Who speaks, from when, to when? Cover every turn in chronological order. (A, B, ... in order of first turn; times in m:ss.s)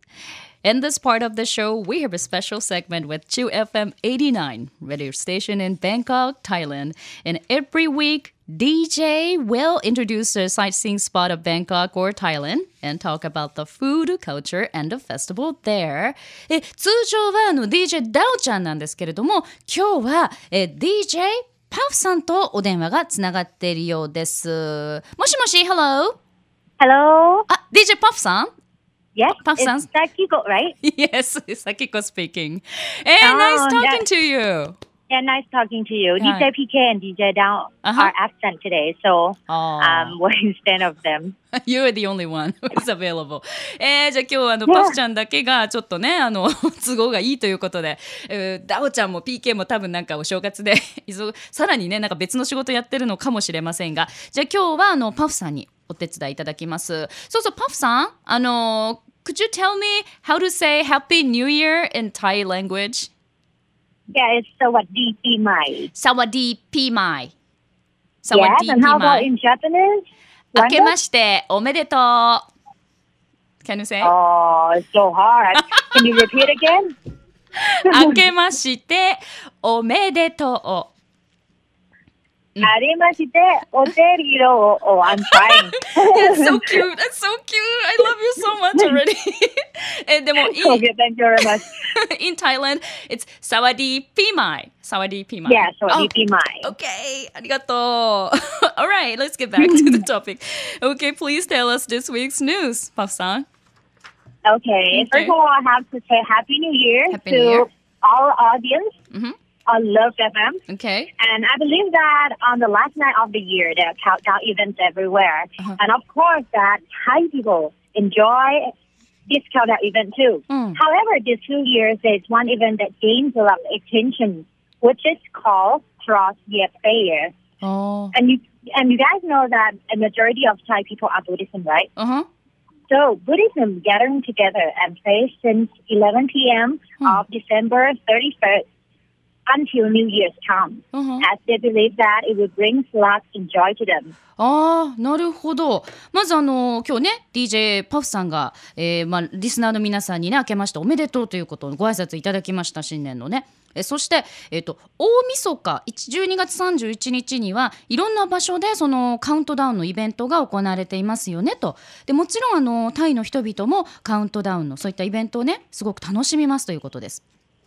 0:00.6-0:26.2 A
0:26.8-0:27.5 B
0:27.5-0:28.5 A
0:29.1-0:30.8 B
0:29.4-0:29.9 A
0:30.8-0:34.8 A
0:33.2-0:34.0 B
0:35.1-0:41.3 B
0:36.2-0:36.5 A
0:37.8-0:38.1 A
0:39.5-0:40.2 A
0:41.5-1:03.1 A
0:44.7-0:45.0 B
1:04.1-1:05.9 B
1:05.9-1:07.3 A
1:08.2-1:09.3 A
1:08.3-1:10.9 B
1:10.5-1:12.4 A
1:13.6-1:14.1 A
1:14.0-1:16.9 B
1:15.8-1:16.1 A
1:17.6-1:20.9 A
1:22.6-1:26.5 B
1:25.3-1:30.8 A
1:30.4-1:31.7 B
1:31.4-1:43.4 A
1:35.4-1:36.7 B
1:39.6-1:39.9 B
1:44.4-1:48.9 B
1:44.9-1:45.3 A
1:47.1-1:47.7 A
1:49.7-1:50.6 B
1:50.7-1:51.1 A
1:51.2-1:58.7 B
1:59.3-2:07.3 B
2:00.5-2:00.8 A
2:07.6-2:08.2 A
2:08.1-2:11.9 B
2:12.0-2:12.3 A
2:12.9-2:18.6 B
2:19.5-2:24.2 B
2:20.9-2:21.3 A
2:24.4-2:47.2 A